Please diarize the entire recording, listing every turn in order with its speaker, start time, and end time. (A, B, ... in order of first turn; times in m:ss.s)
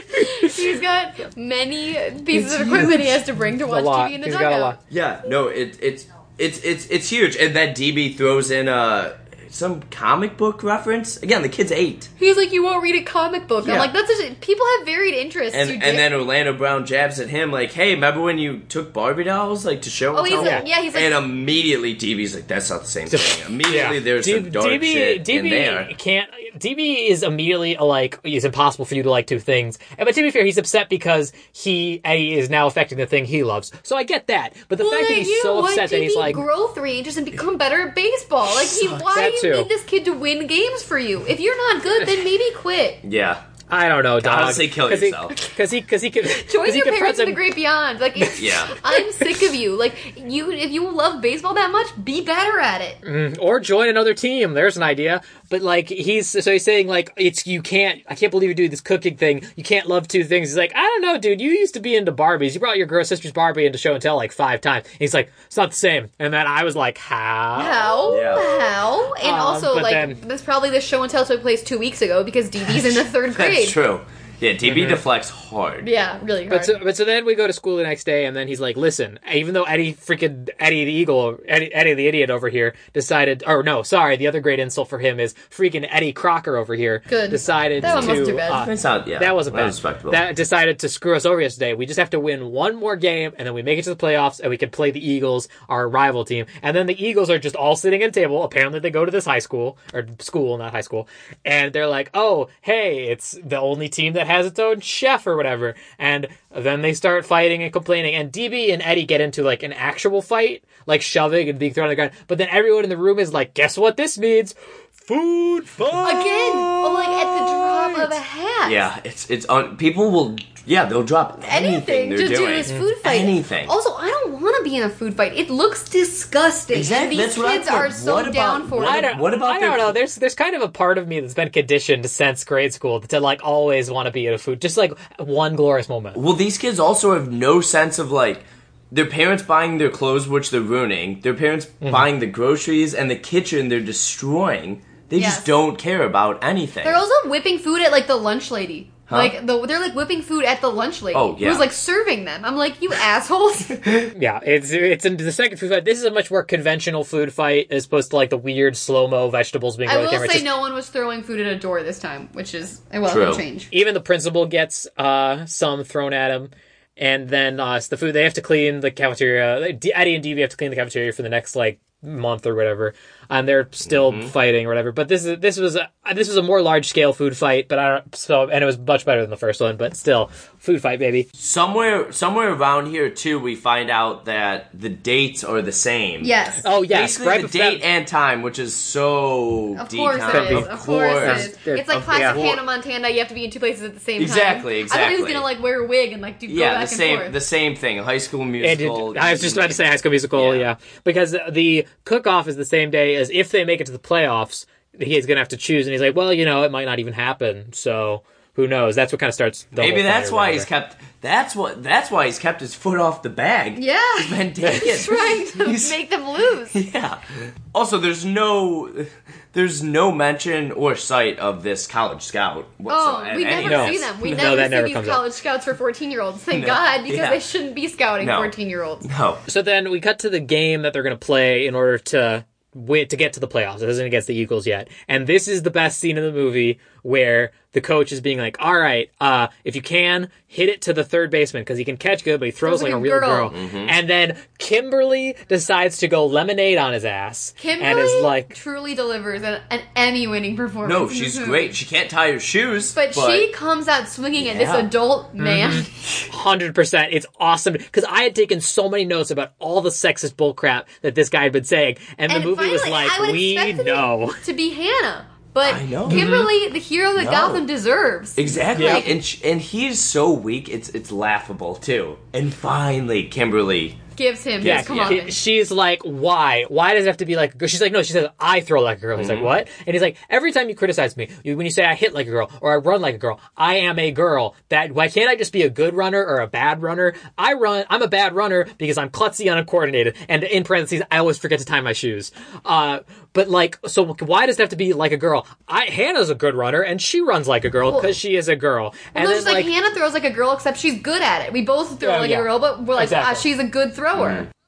0:00.1-0:04.8 A
0:02.4-0:03.2 B
0:03.5-0:04.8 C
0:04.9-0:12.1 B
0:12.2-0:16.1 A
0:13.6-0:13.9 B
0:15.5-0:25.9 B
0:20.1-0:21.2 A
0:20.4-0:20.7 C
0:23.1-0:36.4 C
0:34.8-0:43.0 A
0:38.6-0:39.1 B
0:39.1-0:39.7 C
0:43.0-0:43.4 B
0:43.7-0:47.4 C
0:44.2-0:45.4 B
0:46.4-0:53.0 A
0:48.4-0:48.7 B
0:53.0-1:08.2 C
1:07.6-1:13.8 A
1:08.1-1:08.5 B
1:09.2-1:10.2 C
1:12.9-1:15.9 B
1:14.6-1:15.0 C
1:15.8-1:16.8 A
1:16.5-1:56.8 C
1:27.1-1:28.6 A
1:27.8-1:30.2 B
1:55.9-1:57.2 B
1:56.0-1:58.8 A
1:58.6-2:03.7 B
2:01.5-2:09.1 A
2:06.7-2:10.0 B
2:08.8-2:16.2 C
2:16.2-2:27.0 B
2:25.2-2:25.5 A
2:26.8-2:33.8 A
2:29.1-2:29.4 B
2:31.1-2:31.7 B
2:34.2-2:40.5 C
2:39.9-2:43.7 A
2:43.1-2:43.4 B
2:43.7-3:01.3 C
2:53.8-2:54.3 B
3:01.4-3:06.3 B
3:06.2-3:06.6 A
3:06.6-3:07.8 C
3:06.9-3:12.6 B
3:09.8-3:17.4 A
3:10.3-3:12.4 C
3:14.2-3:15.5 B
3:16.5-3:19.8 B
3:18.6-3:30.7 C
3:20.4-3:20.7 B
3:29.8-3:36.0 B
3:33.8-3:36.8 A
3:36.7-3:44.6 B
3:42.9-3:49.1 A
3:43.6-3:45.2 C
3:46.5-3:47.4 B
3:48.2-3:48.5 B
3:49.0-3:49.4 B
3:49.5-4:08.5 C
4:02.6-4:03.5 A
4:03.5-4:04.0 B
4:07.6-4:11.6 A
4:10.8-4:13.5 B
4:12.9-4:15.9 A
4:14.4-4:14.9 B
4:15.4-4:24.4 C
4:22.3-4:29.0 A
4:25.6-4:26.3 B
4:26.1-4:26.5 C
4:27.2-4:27.7 B
4:28.4-4:34.0 B
4:28.8-4:29.1 C
4:34.2-4:35.4 A
4:34.6-4:35.2 B
4:34.6-4:59.7 C
4:39.2-4:39.5 B
4:57.9-4:58.1 A
4:59.1-5:04.5 A
5:02.0-5:03.5 C
5:04.2-5:04.5 B